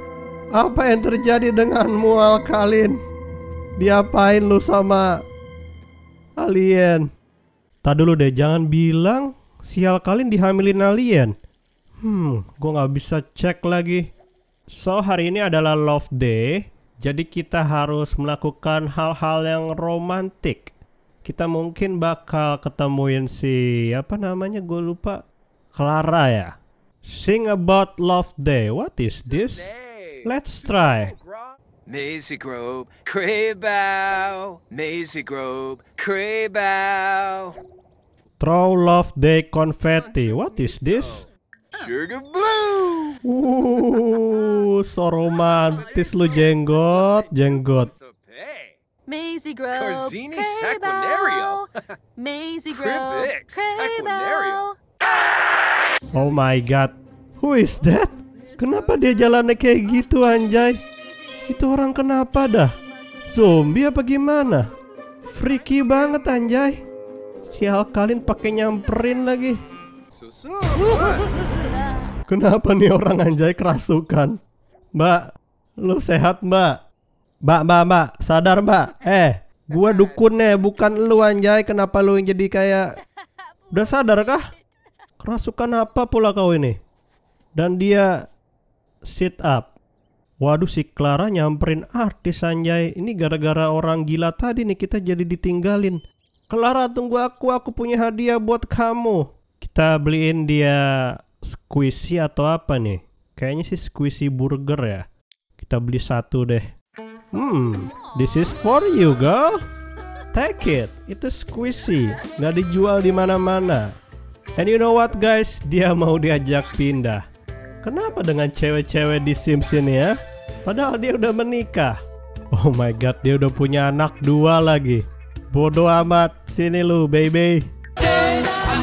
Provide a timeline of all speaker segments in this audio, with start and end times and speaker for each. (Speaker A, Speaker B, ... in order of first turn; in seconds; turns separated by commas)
Speaker A: 0.6-3.0, Speaker A: 3.8-5.1, Speaker A: 6.4-7.1, Speaker A: 7.8-11.3, Speaker A: 12.0-14.1, Speaker A: 14.7-20.7, Speaker A: 21.2-25.2, Speaker A: 25.7-26.5, Speaker A: 27.1-29.7, Speaker A: 30.2-31.1, Speaker B: 31.9-37.6, Speaker A: 38.4-41.2, Speaker B: 41.7-43.2, Speaker A: 43.2-47.9, Speaker B: 47.9-48.7, Speaker C: 49.1-51.6, Speaker B: 49.9-51.7, Speaker C: 52.2-54.7, Speaker B: 52.7-54.7, Speaker A: 56.1-60.8, Speaker A: 61.5-62.7, Speaker A: 63.3-64.7, Speaker A: 65.3-66.8, Speaker A: 67.4-69.6, Speaker B: 70.2-71.2, Speaker A: 70.7-71.5, Speaker A: 72.3-74.4, Speaker A: 75.0-76.8, Speaker A: 77.5-82.9, Speaker A: 83.7-84.4, Speaker A: 85.2-86.8, Speaker A: 87.6-88.1, Speaker A: 89.1-89.7, Speaker A: 90.4-105.0, Speaker A: 105.6-106.7, Speaker A: 107.3-109.6, Speaker A: 110.3-113.9, Speaker A: 114.6-117.2, Speaker A: 117.8-122.0, Speaker A: 122.5-127.6